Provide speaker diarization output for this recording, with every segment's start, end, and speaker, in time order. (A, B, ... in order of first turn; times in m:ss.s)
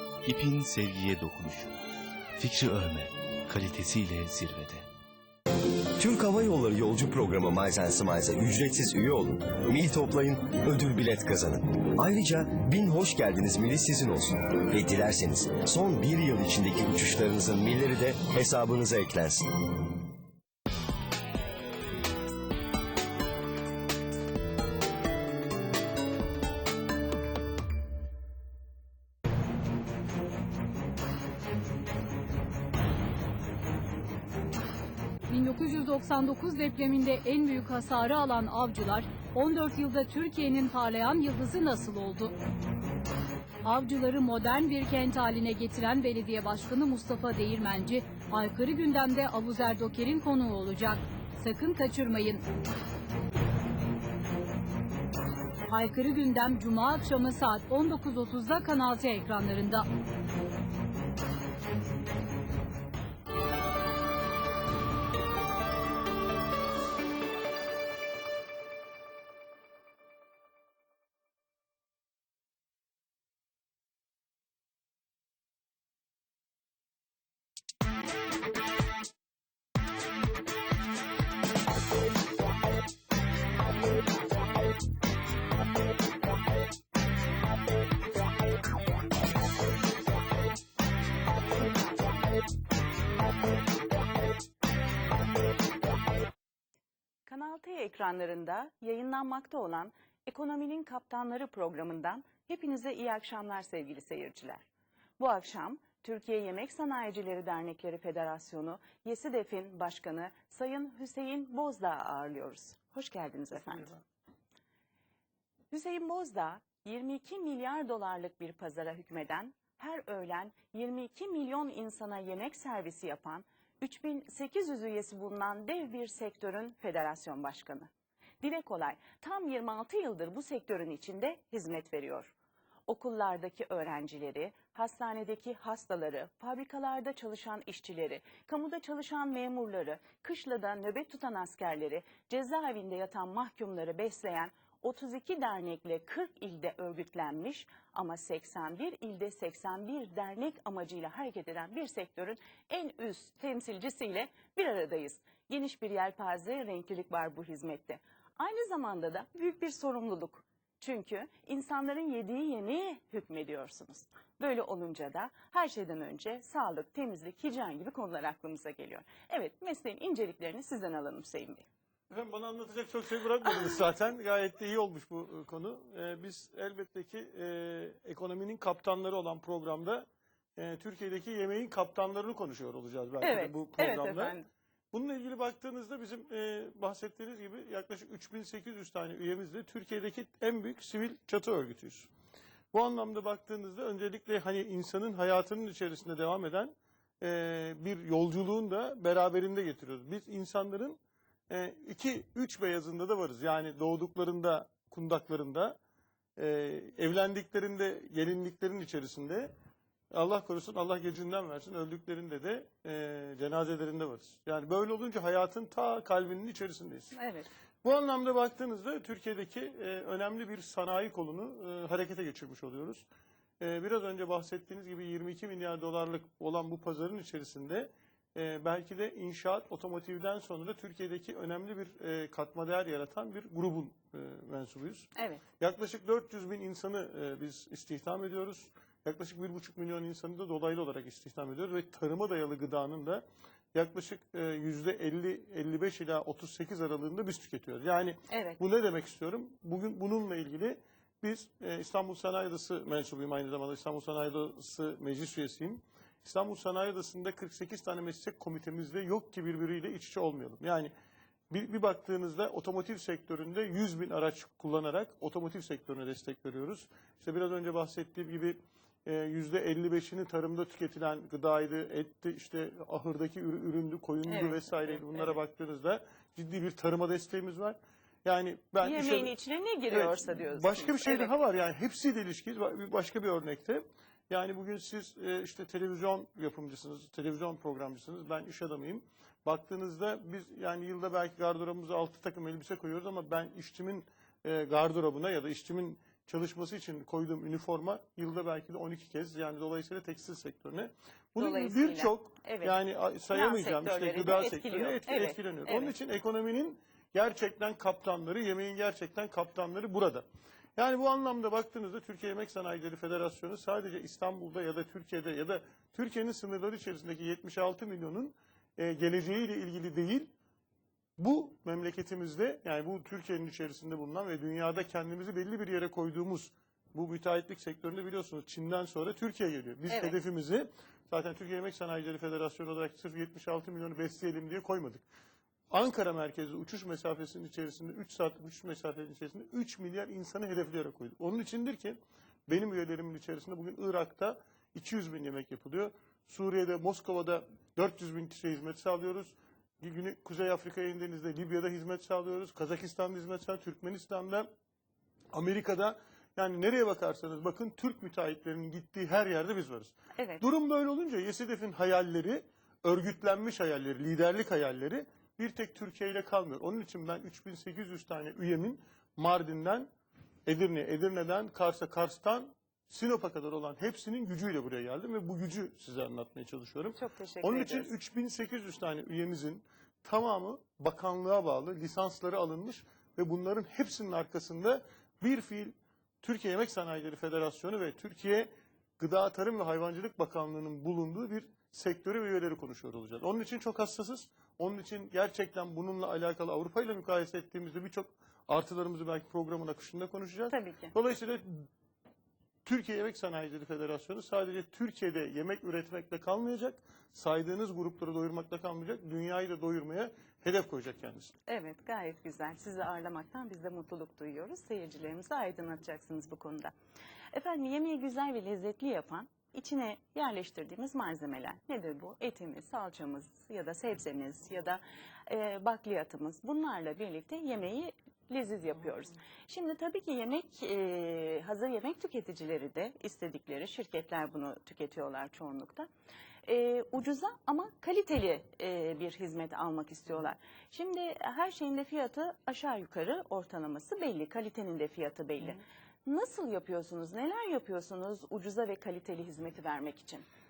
0:00.2-0:01.7 A
0:02.4-0:04.8 A
0:06.0-0:19.4 B
0:35.3-0:42.3 C
0:43.6-0:52.4 C
0:55.7-0:59.9 C
1:37.3-1:44.6 D
1:45.2-1:53.9 D
1:55.7-2:07.9 D
2:08.4-2:12.3 D
2:12.9-2:51.6 D
2:52.1-3:04.4 E
3:03.2-3:04.5 D
3:04.9-3:12.1 E
3:12.7-3:21.0 E
3:21.5-3:25.8 E
3:26.4-3:29.5 E
3:30.1-3:37.2 E
3:37.1-3:37.5 D
3:37.8-3:43.0 E
3:43.6-4:20.9 E
3:55.2-3:55.4 D
4:08.3-4:08.6 D
4:21.5-4:39.3 E
4:34.2-4:35.4 D
4:38.8-4:41.3 D
4:39.9-5:10.2 E
5:01.4-5:02.8 D
5:03.3-5:05.9 D
5:10.8-5:20.3 E
5:21.2-5:35.0 E
5:29.9-5:30.2 D
5:35.7-5:54.5 E
5:55.3-6:09.9 E
6:00.2-6:00.4 D
6:10.4-6:41.7 E
6:16.9-6:17.9 D
6:40.5-6:40.9 D
6:42.6-6:51.3 E
6:51.5-6:56.7 D
6:57.3-7:15.9 D
7:16.4-7:30.2 D